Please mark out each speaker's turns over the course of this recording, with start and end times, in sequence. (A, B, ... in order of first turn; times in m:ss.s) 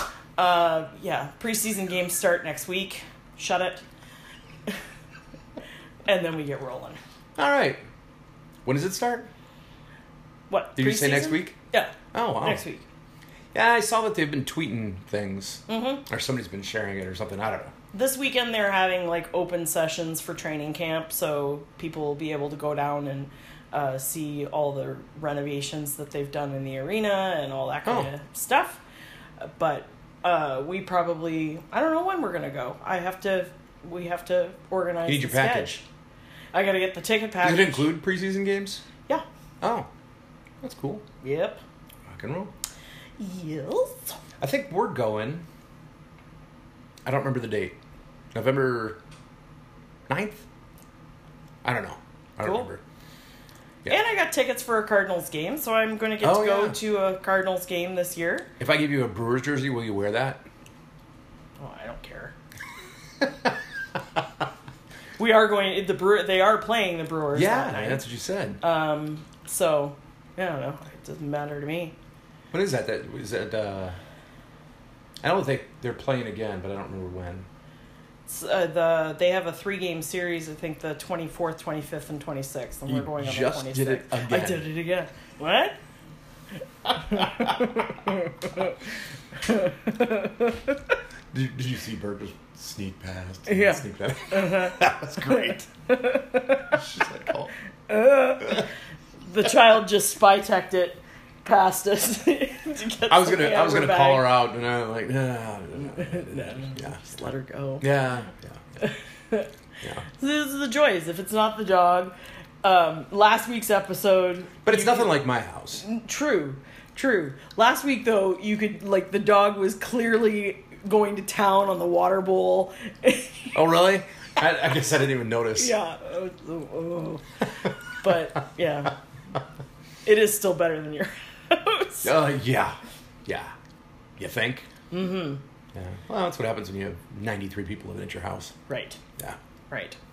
0:00.4-0:03.8 A
0:06.0-0:07.0 A
0:07.4-0:07.8 B
0:08.6-0:09.3 B
0:10.5-0:12.8 A
0:10.8-0:11.6 B
0:12.1-0:12.6 B
0:13.5-0:17.7 B
0:15.7-0:16.0 A
0:17.9-0:28.8 A
0:27.8-0:28.1 B
0:29.4-0:35.8 A
0:35.0-0:35.8 B
0:36.5-0:37.9 A
0:37.4-0:38.8 B
0:39.6-0:39.9 B
0:40.6-0:41.0 B
0:41.2-0:41.6 A
0:42.1-0:42.5 B
0:43.2-0:44.2 A
0:44.4-0:45.4 B
0:47.0-0:47.8 B
0:48.3-0:49.0 B
0:50.1-0:50.4 B
0:51.6-0:52.8 B
0:52.4-0:52.7 A
0:53.8-0:58.5 A
0:56.2-0:56.8 B
0:58.6-1:00.4 B
1:01.6-1:02.3 A
1:03.2-1:03.5 B
1:05.2-1:08.0 A
1:07.3-1:08.6 B
1:08.6-1:12.0 A
1:12.5-1:14.0 B
1:15.2-1:17.5 B
1:18.3-1:25.8 A
1:22.9-1:24.7 B
1:27.0-1:28.8 A
1:27.1-1:27.7 B
1:29.4-1:30.8 A
1:31.3-1:35.6 B
1:33.5-1:36.8 A
1:36.7-1:37.5 B
1:37.9-1:38.7 A
1:39.2-1:44.3 A
1:43.1-1:47.0 B
1:45.8-1:47.9 A
1:47.8-1:48.6 B
1:48.8-1:49.5 A
1:50.0-1:55.2 A
1:54.6-1:55.8 B
1:55.8-2:03.5 A
2:03.5-2:05.7 B
2:05.6-2:07.2 A
2:07.9-2:09.0 A
2:10.0-2:12.1 A
2:12.0-2:13.5 B
2:14.2-2:14.7 B
2:14.9-2:15.4 A
2:15.7-2:18.5 B
2:18.7-2:19.0 A
2:19.7-2:20.0 A